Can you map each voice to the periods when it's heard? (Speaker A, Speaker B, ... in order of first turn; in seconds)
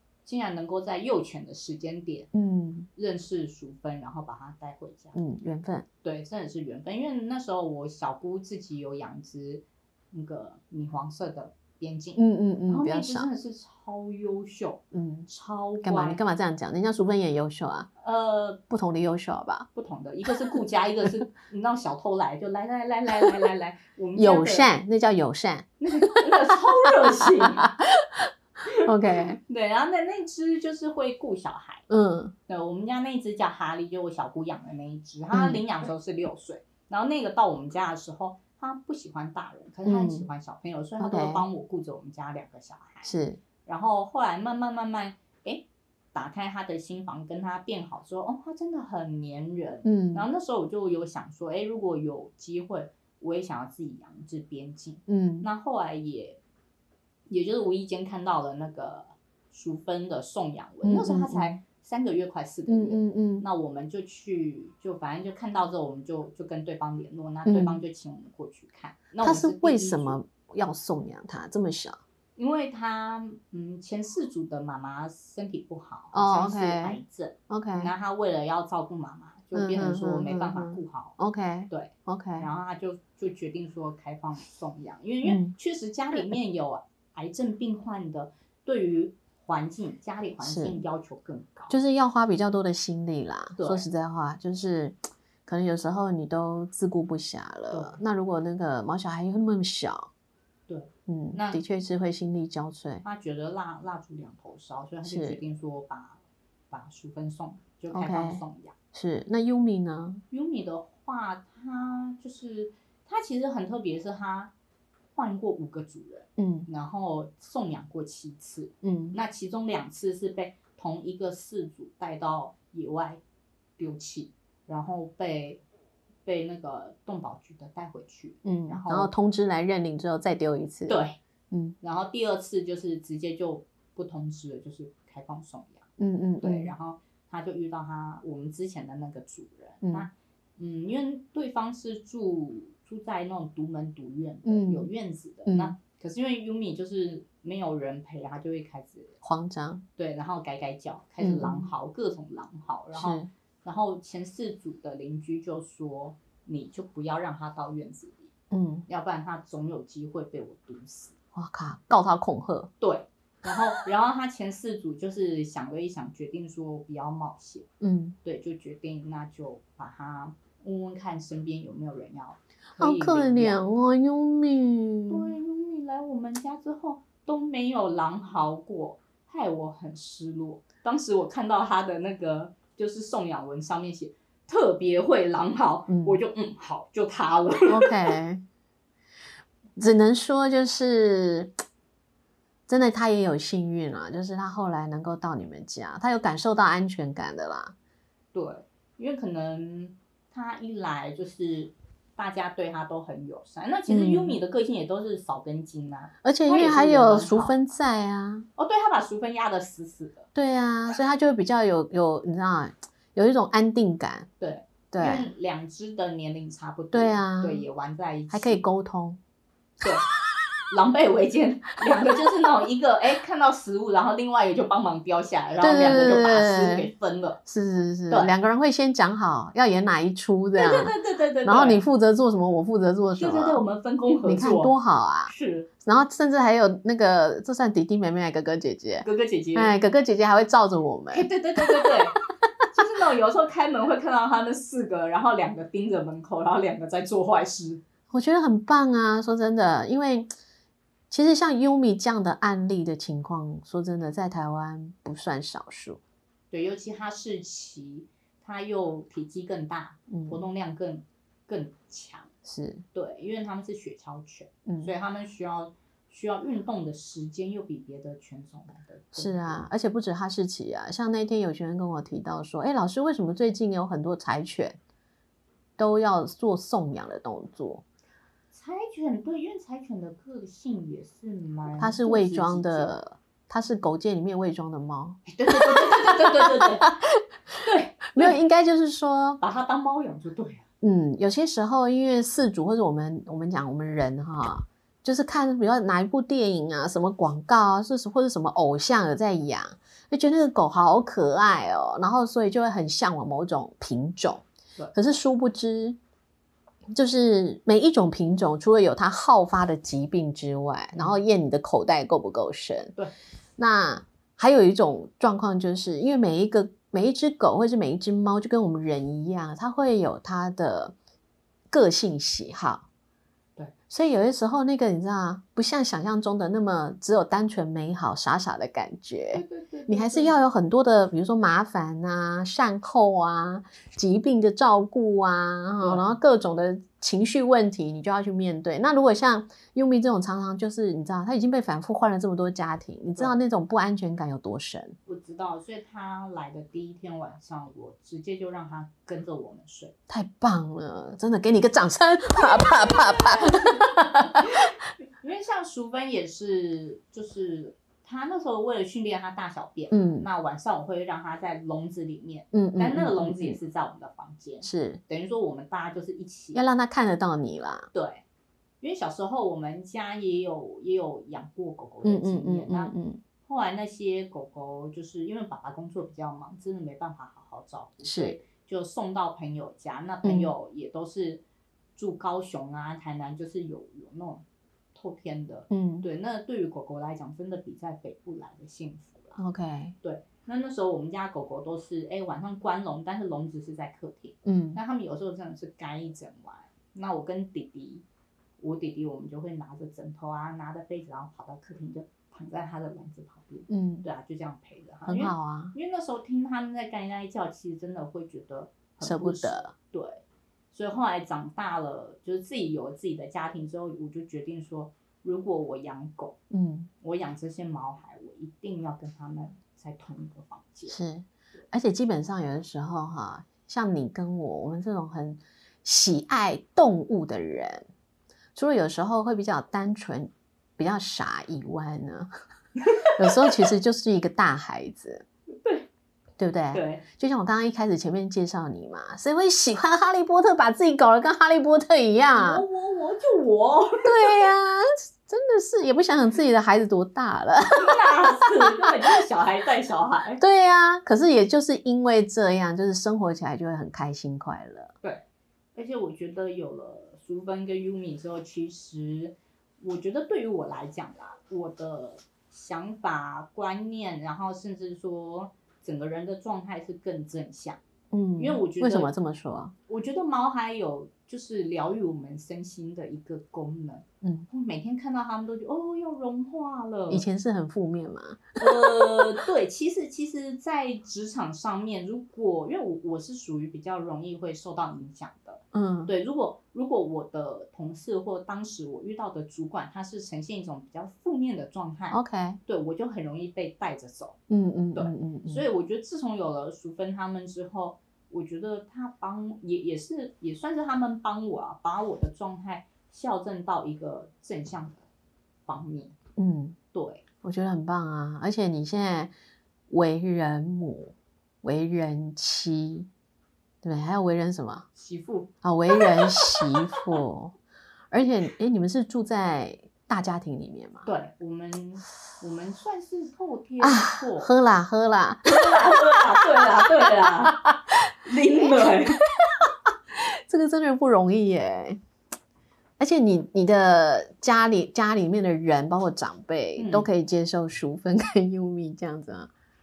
Speaker A: 0.2-2.3, 3.0-5.2, 6.0-16.2, 18.0-18.6, 19.7-24.7, 25.8-27.7, 29.4-31.9, 32.5-56.4, 57.3-70.2, 72.4-81.2, 81.7-91.8, 93.5-93.8, 97.7-98.0, 100.7-101.6, 103.0-108.7, 110.3-114.5, 115.1-123.2, 123.8-125.6, 126.2-129.1, 130.9-131.2, 131.8-135.9, 136.4-149.1, 150.0-158.3, 158.9-161.1, 162.8-167.7, 168.2-173.6, 175.1-188.1, 198.3-207.6, 208.6-210.3, 214.4-218.6, 219.8-220.1, 220.7-227.4, 230.6-231.8, 233.1-234.7, 235.2-235.7, 239.0-239.7, 241.1-242.2, 242.7-247.8, 256.5-262.3, 262.9-269.6, 278.5-282.9, 285.2-286.9, 287.6-288.4, 289.4-290.6, 310.9-311.2, 329.3-330.4, 335.8-336.2, 345.1-349.9, 353.0-366.6, 367.9-368.2, 368.8-372.9, 373.4-381.4, 381.9-384.4, 384.9-389.4, 390.0-398.0, 398.6-416.4, 417.0-421.0, 432.8-433.6, 435.5-435.9, 436.7-437.0, 442.3-444.3, 447.7-450.4, 455.7-467.8, 468.4-469.1, 469.9-477.2, 478.6-494.4, 494.9-505.1, 505.7-506.2, 506.9-507.2, 514.9-517.0, 521.0-524.5, 525.4-527.6, 528.2-529.2, 536.8-537.1
Speaker B: 2.3-2.9, 5.1-5.9, 12.2-13.3, 14.9-15.3, 15.8-17.9, 18.7-19.7, 24.1-26.5, 27.1-29.4, 31.9-32.3, 35.3-35.6, 39.8-40.3, 41.0-41.4, 43.0-43.4, 49.8-50.3, 55.1-55.5, 60.8-61.6, 62.7-63.5, 67.5-67.8, 69.2-72.0, 76.1-77.9, 79.5-82.5, 85.2-85.5, 90.4-90.8, 91.7-100.1, 101.1-103.0, 105.0-105.4, 107.9-110.2, 116.4-116.7, 118.8-119.2, 128.4-131.0, 131.5-131.8, 136.0-136.7, 139.8-140.1, 144.4-144.9, 145.4-145.7, 149.2-149.8, 151.2-151.7, 152.9-153.3, 158.5-158.8, 161.3-162.7, 167.8-168.2, 172.8-175.3, 185.9-186.2, 187.7-188.4, 189.8-191.5, 192.7-197.7, 203.9-204.4, 206.2-208.5, 210.3-214.3, 214.9-215.3, 216.9-217.7, 218.3-219.2, 225.6-226.9, 227.4-230.9, 231.4-233.6, 234.2-241.9, 248.1-250.3, 251.1-256.0, 260.1-260.4, 262.4-262.8, 264.7-264.9, 269.1-274.8, 275.8-277.8, 281.8-287.2, 288.1-289.4, 290.8-306.0, 306.9-312.9, 313.6-320.9, 321.7-322.9, 323.9-344.9, 350.1-354.5, 359.9-360.3, 362.5-363.6, 364.6-365.0, 366.5-367.9, 372.0-373.2, 378.0-378.4, 380.2-380.5, 385.7-386.1, 389.4-389.9, 394.4-394.8, 403.7-404.1, 405.1-405.7, 409.0-409.7, 416.5-416.9, 420.9-427.9, 428.5-432.3, 433.1-435.2, 436.4-442.6, 444.0-448.9, 450.4-454.9, 468.1-469.7, 474.2-474.5, 477.1-479.3, 485.7-486.1, 492.1-492.6, 494.5-495.6, 506.4-506.8, 507.4-509.3, 509.9-513.1, 513.8-514.9, 515.6-517.5, 518.1-521.1, 523.8-526.7, 527.2-532.0, 533.0-539.5